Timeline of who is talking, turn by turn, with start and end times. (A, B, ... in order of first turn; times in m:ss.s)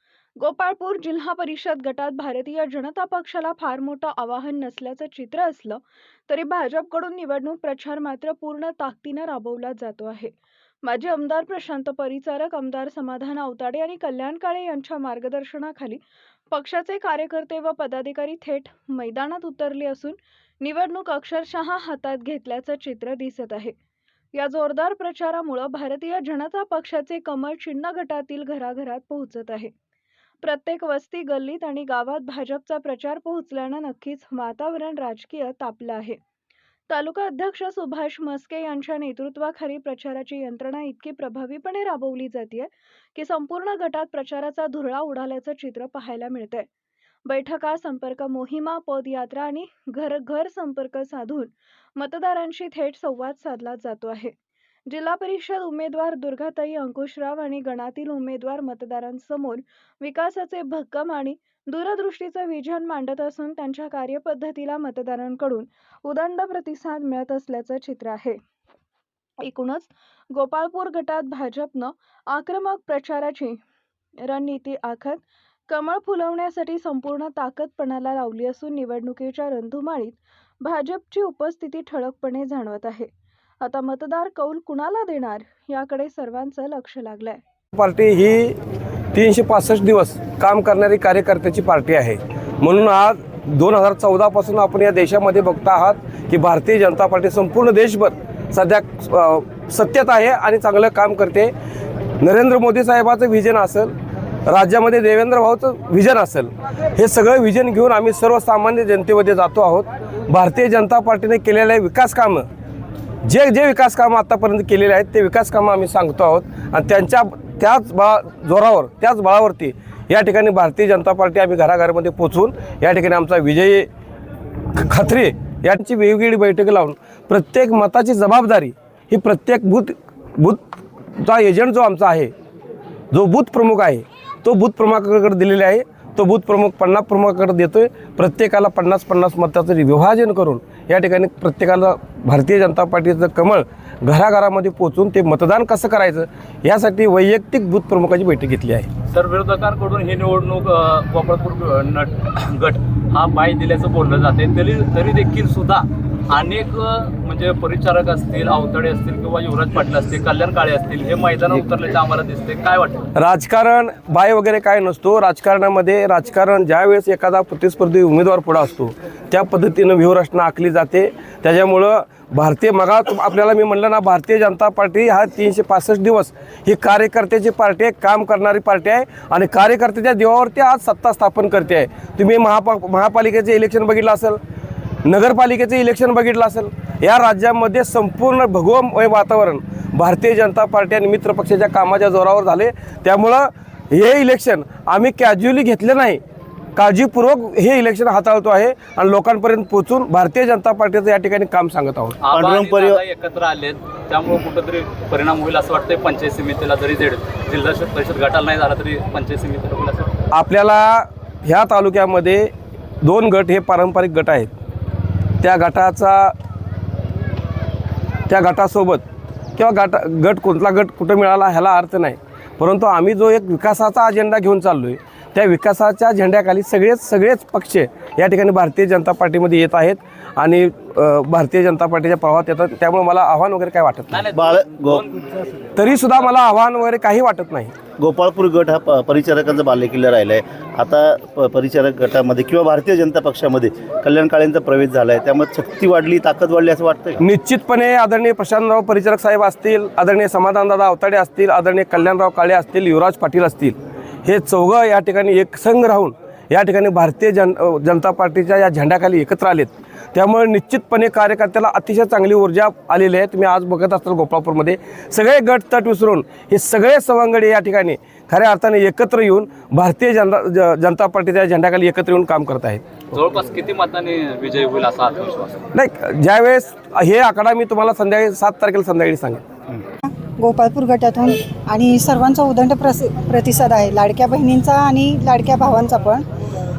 0:00.4-0:23.7 A
0:24.3-0:29.7 A
0:30.4-0:36.2 A
0:36.9-0:46.7 A
0:47.3-0:54.3 A
0:54.9-1:08.4 A
1:09.4-1:13.6 A
1:14.2-1:23.1 A
1:23.6-1:27.4 A
1:27.8-1:28.6 B
1:29.1-1:41.5 B
1:42.2-1:43.9 B
1:44.5-1:52.5 B
1:53.2-2:03.9 B
2:04.7-2:10.6 B
2:11.2-2:12.3 B
2:13.1-2:28.9 B
2:29.1-2:43.1 C
2:43.2-3:04.4 B
3:05.0-3:16.2 B
3:16.8-3:22.2 B
3:22.2-3:30.2 C
3:22.3-3:23.0 D
3:30.3-3:32.5 B
3:33.0-3:34.5 B
3:35.4-3:36.3 B
3:38.3-3:39.0 B
3:39.6-3:54.2 B
3:54.1-3:55.3 C
3:54.3-3:55.0 D
3:55.8-3:57.7 B
3:58.0-4:07.2 D
4:07.2-4:32.8 B
4:33.1-4:35.6 C
4:35.8-4:39.4 B
4:40.0-4:46.2 E